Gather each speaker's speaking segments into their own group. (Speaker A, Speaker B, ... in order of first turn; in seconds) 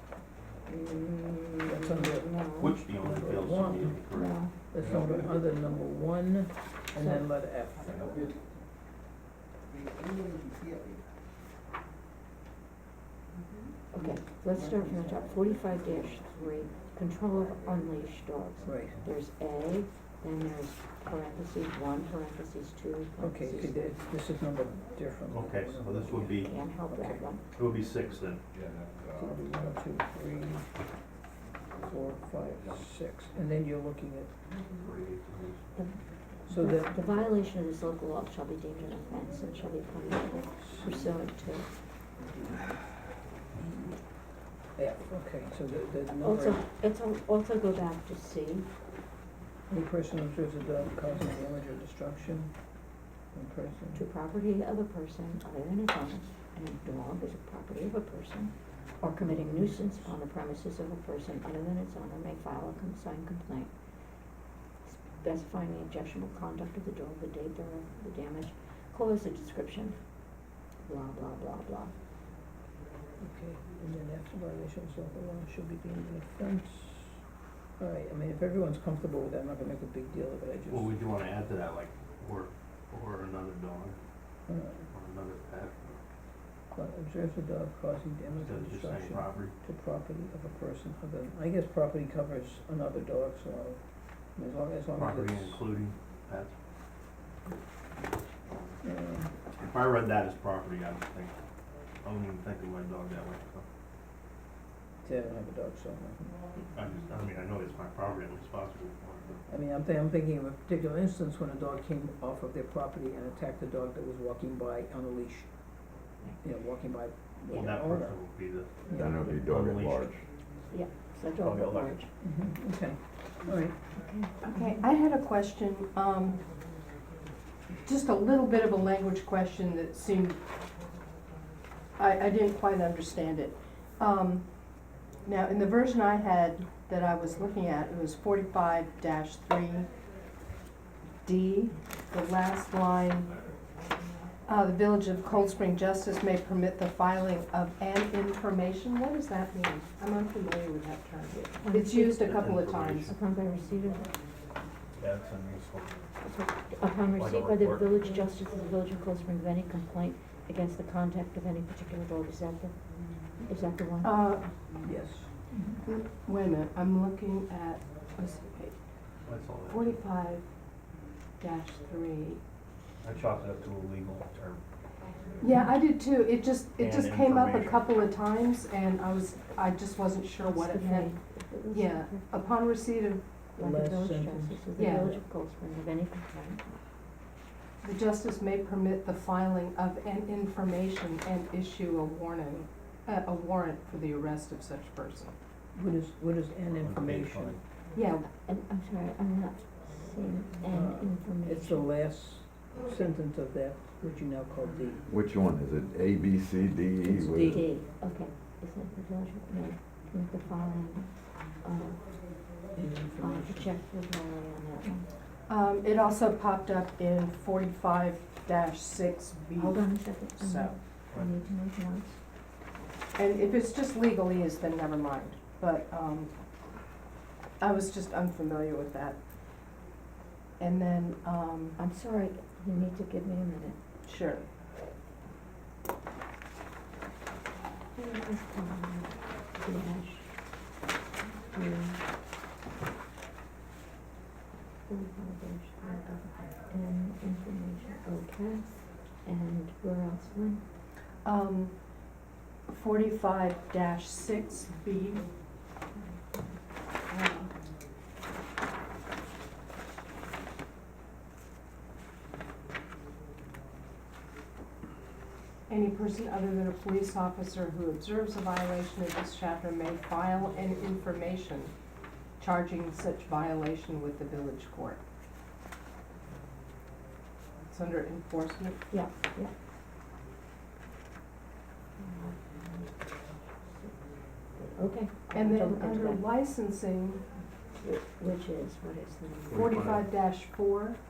Speaker A: 0.7-2.8, 4.1-4.5, 7.0-7.3, 13.9-23.9, 26.4-27.5, 36.5-41.7, 46.2-48.7, 53.9-63.7, 64.8-70.0, 70.8-71.9, 120.7-122.1, 124.0-124.8, 151.3-152.4, 153.1-154.2, 156.2-164.3, 180.4-182.4, 183.6-186.6, 198.2-201.9, 207.1-212.7, 213.2-215.1, 219.6-222.2, 231.8-233.8, 237.9-240.7, 241.4-242.0, 244.9-250.7, 256.0-256.5, 278.9-279.5, 282.0-284.0, 284.5-286.3, 287.8-289.6
Speaker B: 1.6-2.3, 2.9-4.0, 4.7-8.3, 18.6-19.0, 23.2-27.3, 29.2-30.7, 31.8-34.3, 36.5-37.0, 40.6-41.2, 42.2-42.8, 43.6-44.0, 44.8-46.6, 49.7-52.5, 53.3-54.0, 59.2-60.1, 73.2-77.2, 77.8-80.9, 84.5-84.9, 86.7-93.8, 94.3-95.6, 98.8-99.3, 105.0-106.4, 109.5-115.5, 116.4-118.2, 118.9-119.4, 122.2-123.8, 164.8-165.4, 183.6-184.7, 195.8-197.6, 200.7-205.1, 207.1-207.6, 212.7-213.7
Speaker C: 2.6-5.4, 25.3-26.6, 27.6-28.4, 34.8-35.7, 80.7-84.0, 84.9-86.0, 88.3-89.5, 95.0-96.5, 99.6-101.3, 102.0-103.7, 106.8-109.4, 117.5-118.7, 119.4-120.3, 121.4-122.0, 152.2-153.2, 155.0-155.9, 157.1-157.8, 169.3-170.0, 173.0-174.6, 176.8-177.9, 196.7-197.6, 289.5-290.1
Speaker D: 28.5-29.7, 118.9-120.2, 205.1-207.6
Speaker E: 124.4-126.4, 127.8-130.4, 132.0-134.5, 135.2-139.9, 141.2-143.3, 144.5-153.1, 164.0-164.5, 165.7-168.8, 169.7-170.5, 171.4-172.4, 175.4-181.2, 181.7-183.2, 184.8-185.2, 187.8-195.3, 197.9-198.3, 215.5-220.8, 223.2-226.3, 227.6-229.2, 230.6-231.8, 234.0-234.5, 251.2-251.8, 252.7-255.3, 257.1-257.5, 265.7-271.7, 272.4-275.0, 277.7-278.8, 285.3-287.2, 289.5-291.0